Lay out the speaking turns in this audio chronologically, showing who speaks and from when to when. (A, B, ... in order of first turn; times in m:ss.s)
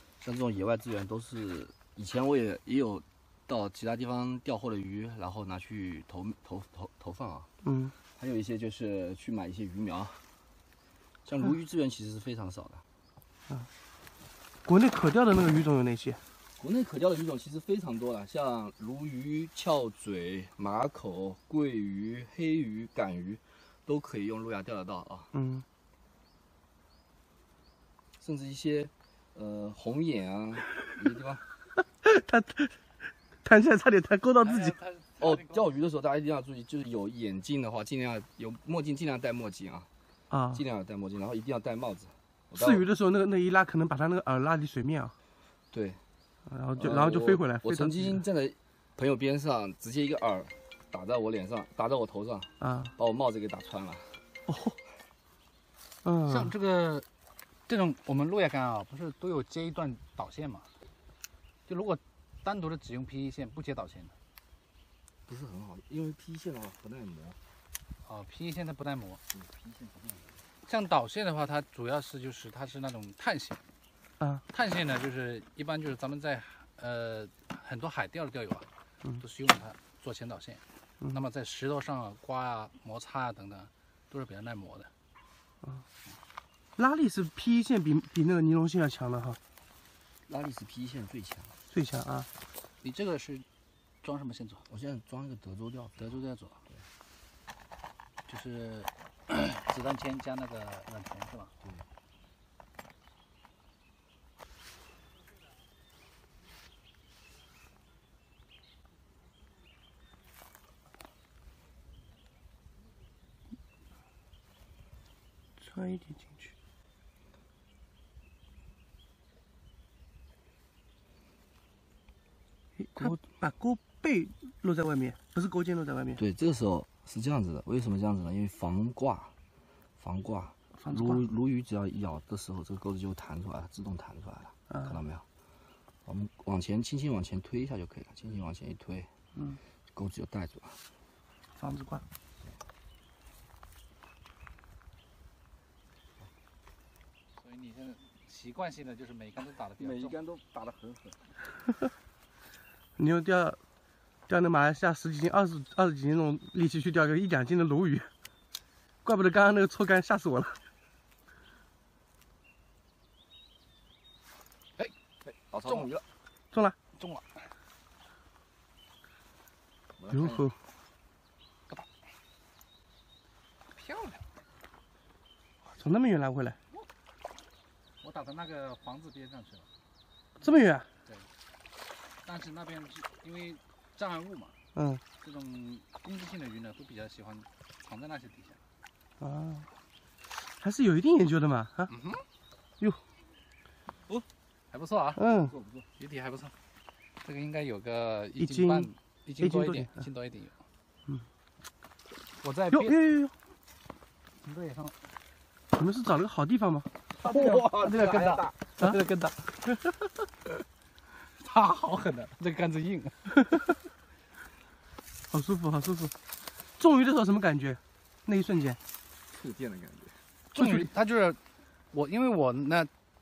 0:00.2-0:07.5 A
0:07.6-0:07.9 B
0:08.1-0:10.2 A
0:11.2-0:12.8 A
0:14.6-0:16.2 B
0:16.6-0:25.3 A
0:25.3-0:25.6 B
0:28.2-0:31.4 A
0:32.0-0:32.8 B
0:33.4-0:34.8 B
0:34.4-0:35.7 C
0:35.2-0:39.9 A
0:40.3-0:40.6 B
0:40.5-0:42.9 A
0:42.6-0:45.1 B
0:45.7-0:46.0 A
0:46.5-0:48.1 B
0:46.8-0:54.2 A
0:52.6-0:52.9 B
0:54.5-0:54.8 B
0:56.0-0:56.5 B
0:56.2-0:57.1 C
0:57.7-1:00.7 C
1:01.7-1:04.1 C
1:05.3-1:07.4 A
1:08.0-1:09.2 C
1:09.3-1:10.4 A
1:10.6-1:13.6 C
1:14.5-1:18.7 C
1:19.2-1:24.9 C
1:26.8-1:29.4 B
1:30.3-1:31.6 A
1:31.7-1:32.3 B
1:32.8-1:33.4 C
1:34.0-1:34.6 C
1:34.7-1:36.1 A
1:36.0-1:36.6 C
1:38.3-1:41.5 C
1:55.6-1:56.5 B
2:02.8-2:06.2 B
2:06.2-2:09.3 A
2:10.0-2:15.2 A
2:10.8-2:11.2 B
2:14.7-2:15.0 B
2:16.1-2:19.1 A
2:19.3-2:19.6 B
2:19.9-2:20.8 A
2:21.6-2:22.0 B
2:27.4-2:30.1 C
2:29.8-2:31.3 A
2:33.0-2:33.6 B
2:34.3-2:38.1 B
2:39.0-2:40.6 B
2:45.2-2:46.0 A
2:47.0-2:47.3 C
2:50.0-2:50.5 A
2:50.1-2:50.6 B
2:53.7-2:54.2 C
2:55.6-2:56.6 B
2:58.0-2:59.7 C
3:00.4-3:00.9 B
3:02.2-3:04.6 C
3:04.8-3:05.0 B
3:05.2-3:08.6 C
3:09.2-3:09.7 B
3:10.5-3:11.9 B
3:11.9-3:12.2 C
3:14.7-3:15.2 C
3:15.2-3:15.5 B
3:15.4-3:15.9 A
3:16.0-3:16.5 C
3:17.2-3:20.6 C
3:18.4-3:19.9 B
3:22.4-3:23.0 C
3:22.7-3:23.3 B
3:24.4-3:25.0 C
3:25.7-3:26.9 B
3:27.2-3:28.6 A
3:27.2-3:29.4 C
3:31.4-3:33.2 C
3:35.3-3:36.1 B
3:36.8-3:38.8 B
3:39.3-3:40.2 A
3:40.6-3:41.4 C
3:40.6-3:40.8 B
3:41.9-3:42.9 C